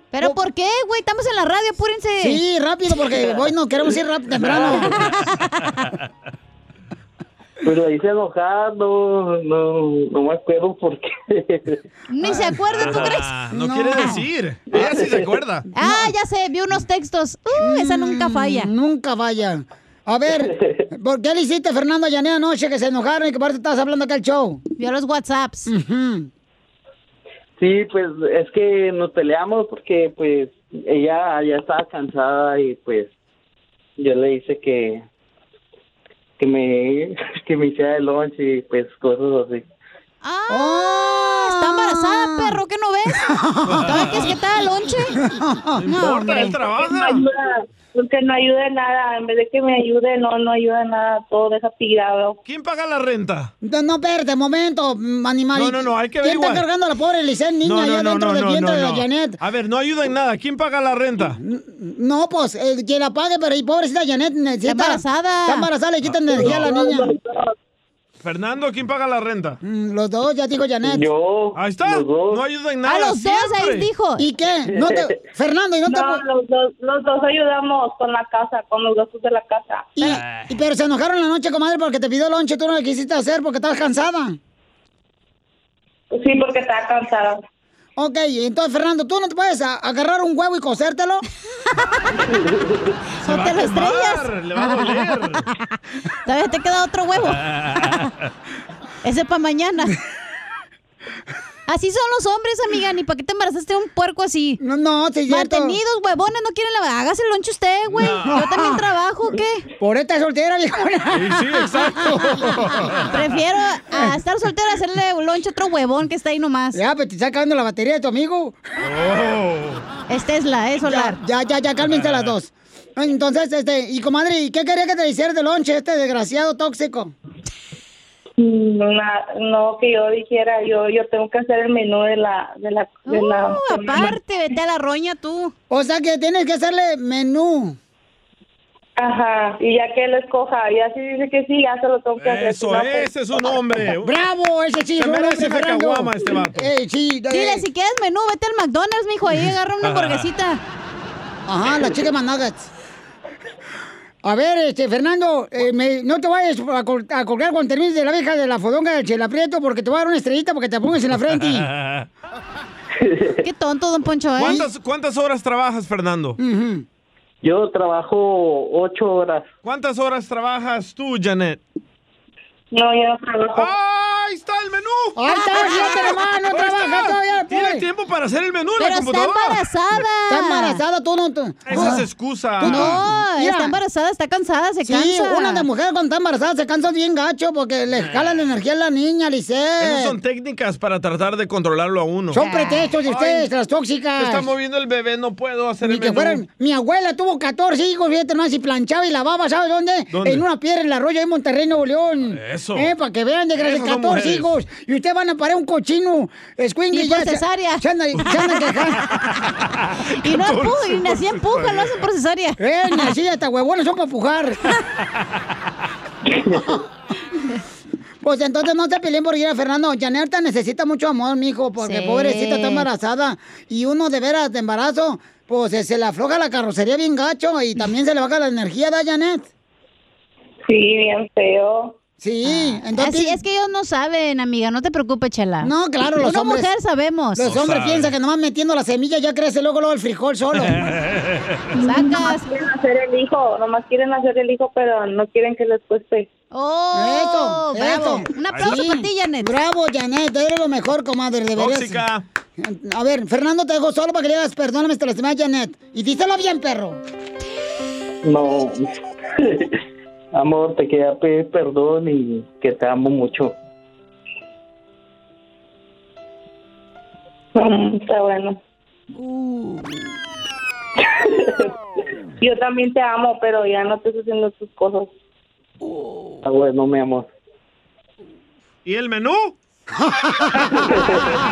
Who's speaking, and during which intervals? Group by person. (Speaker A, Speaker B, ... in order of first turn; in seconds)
Speaker A: 0.1-2.4, 5.0-5.5, 12.1-13.3, 15.8-18.7, 24.8-25.7, 40.2-43.3, 43.9-45.2, 45.9-46.5, 64.7-65.7, 72.9-74.2, 93.2-94.3, 96.3-98.1, 99.0-100.0, 101.7-104.6, 105.3-109.7, 113.1-116.8, 120.1-121.2, 133.1-135.5, 147.3-150.6, 163.4-164.7, 175.3-176.2, 178.8-180.8, 182.6-185.7, 192.4-192.9, 206.9-208.9, 210.2-213.1, 221.8-222.9, 232.4-237.4, 241.8-242.5, 246.5-249.6
Speaker B: 2.2-5.0, 12.2-12.6, 13.5-14.2, 15.8-16.1, 17.6-24.6, 25.7-26.3, 40.5-42.6, 43.2-44.3, 45.2-46.5, 53.6-59.4, 61.4-67.2, 69.6-71.1, 74.2-76.2, 80.0-84.4, 88.0-91.2, 104.6-105.8, 108.3-108.8, 109.8-112.9, 116.7-118.6, 120.8-127.1, 135.7-137.8, 144.0-147.7, 151.5-152.7, 154.2-161.7, 166.4-166.8, 175.2-177.9, 180.3-182.1, 182.6-183.8, 184.8-190.2, 192.3-194.5, 195.8-209.0, 212.6-214.6, 218.2-229.5, 232.2-233.4, 235.6-236.7, 237.4-240.8, 246.9-252.0, 252.6-257.0
Speaker C: 7.6-11.8, 14.7-15.3, 20.4-20.8, 27.6-33.1, 34.0-35.0, 36.4-39.6, 70.8-72.4, 74.7-75.1, 92.3-92.8, 163.0-163.3, 167.4-169.5, 258.2-259.7, 260.3-263.5, 276.4-277.3, 280.8-281.2
Speaker D: 12.7-15.7, 43.7-44.4, 45.8-47.2, 52.5-53.5, 55.5-56.7, 57.6-61.4, 66.3-66.7, 68.2-69.6, 71.5-73.9, 80.0-80.5, 93.2-95.4, 97.3-98.0, 107.9-108.4, 111.1-113.2, 118.8-119.8, 121.9-122.3, 142.2-144.2, 145.0-146.7, 149.8-150.3, 161.4-162.1, 164.4-166.4, 169.6-171.6, 173.5-175.4, 176.5-179.6, 181.7-183.0, 188.0-188.4, 189.8-192.4, 193.1-193.5, 194.2-196.4, 200.1-200.4, 202.3-202.9, 203.6-204.5, 209.8-212.0, 237.4-238.1, 240.6-241.7, 248.5-248.8, 251.6-252.2, 278.9-279.6
Speaker E: 46.7-52.4, 66.3-67.5, 75.9-79.9, 86.1-87.4, 128.4-134.2, 139.0-143.5, 172.7-173.7, 230.7-232.0, 241.8-246.3, 267.6-268.6, 271.0-271.5, 272.4-275.1